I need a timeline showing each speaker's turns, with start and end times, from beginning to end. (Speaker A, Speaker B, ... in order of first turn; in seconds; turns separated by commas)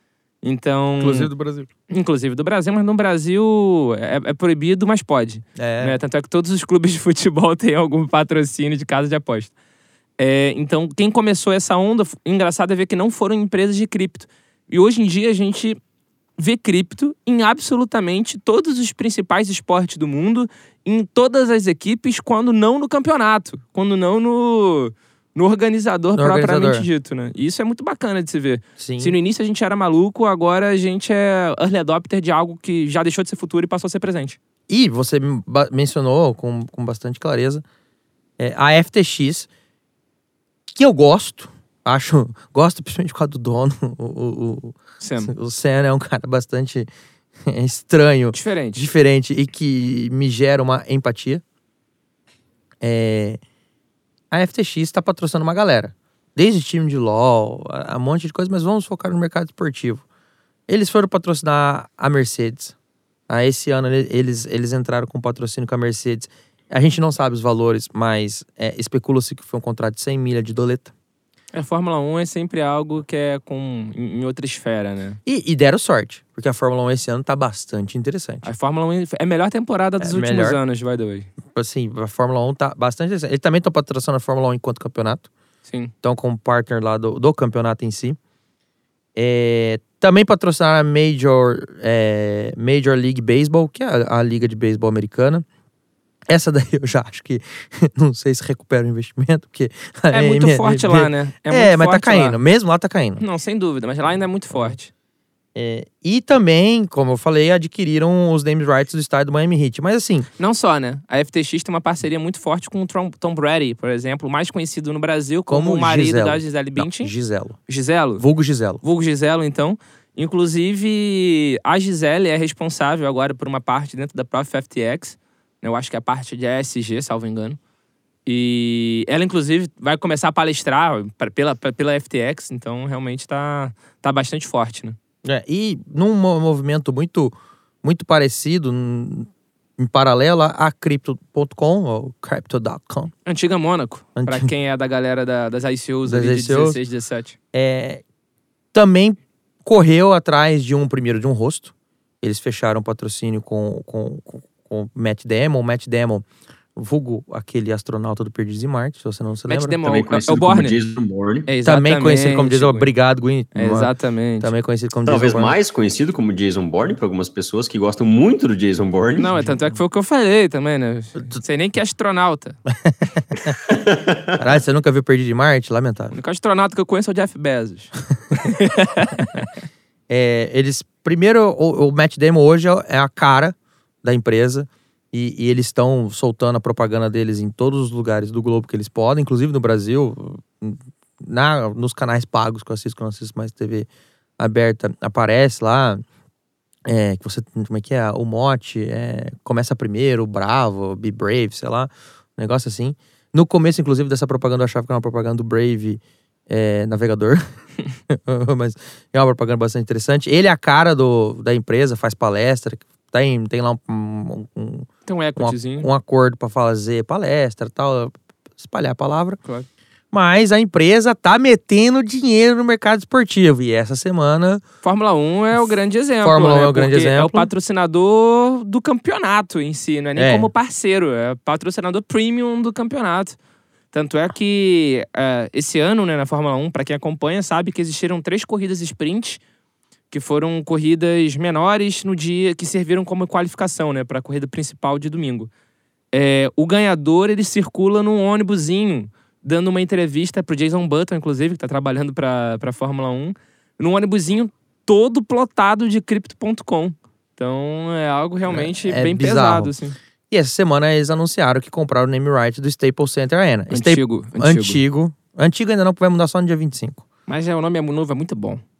Speaker A: 0.4-1.3, Speaker B: 1.0-1.7, Speaker A: 1.9-9.5, Speaker B: 5.5-6.0, Speaker A: 10.2-15.8, Speaker A: 16.4-34.4, Speaker B: 26.1-26.9, Speaker B: 28.8-29.1, Speaker B: 34.7-37.6, Speaker B: 38.4-39.5, Speaker B: 40.7-46.9, Speaker A: 45.0-45.3, Speaker B: 47.4-51.4, Speaker A: 48.3-48.9, Speaker B: 52.8-53.4, Speaker B: 54.3-60.0, Speaker B: 60.7-62.7, Speaker B: 63.3-70.9, Speaker A: 71.5-75.2, Speaker B: 75.2-78.5, Speaker A: 78.4-81.3, Speaker B: 80.0-80.6, Speaker B: 81.5-85.3, Speaker A: 85.7-85.9, Speaker B: 86.0-88.2, Speaker B: 89.2-95.4, Speaker B: 96.3-103.2, Speaker A: 100.1-102.4, Speaker A: 103.2-104.9, Speaker B: 105.5-110.3, Speaker A: 110.4-117.1, Speaker B: 115.5-117.6, Speaker A: 117.7-118.2, Speaker B: 118.2-118.8, Speaker A: 118.8-127.6, Speaker A: 128.2-135.0, Speaker B: 135.2-143.1, Speaker A: 143.2-147.3, Speaker B: 144.2-144.5, Speaker B: 146.0-146.8, Speaker B: 147.5-148.0, Speaker B: 148.7-159.8, Speaker A: 159.5-160.8, Speaker C: 159.8-161.5, Speaker A: 161.5-162.9, Speaker B: 161.6-165.6, Speaker A: 163.5-164.5, Speaker C: 165.1-169.3, Speaker A: 169.2-172.6, Speaker B: 172.7-173.6, Speaker C: 173.7-174.3, Speaker B: 174.4-176.2, Speaker A: 176.1-179.5, Speaker B: 180.1-193.9, Speaker B: 194.4-196.0, Speaker B: 196.8-207.5, Speaker B: 208.1-219.4, Speaker A: 215.1-215.9, Speaker B: 220.1-224.6, Speaker A: 224.8-233.4, Speaker B: 226.2-227.5, Speaker B: 230.2-230.5, Speaker A: 233.9-239.4, Speaker A: 240.1-245.5, Speaker A: 246.1-260.0, Speaker B: 258.5-259.7, Speaker B: 260.3-267.0, Speaker A: 263.7-264.8, Speaker A: 267.3-268.6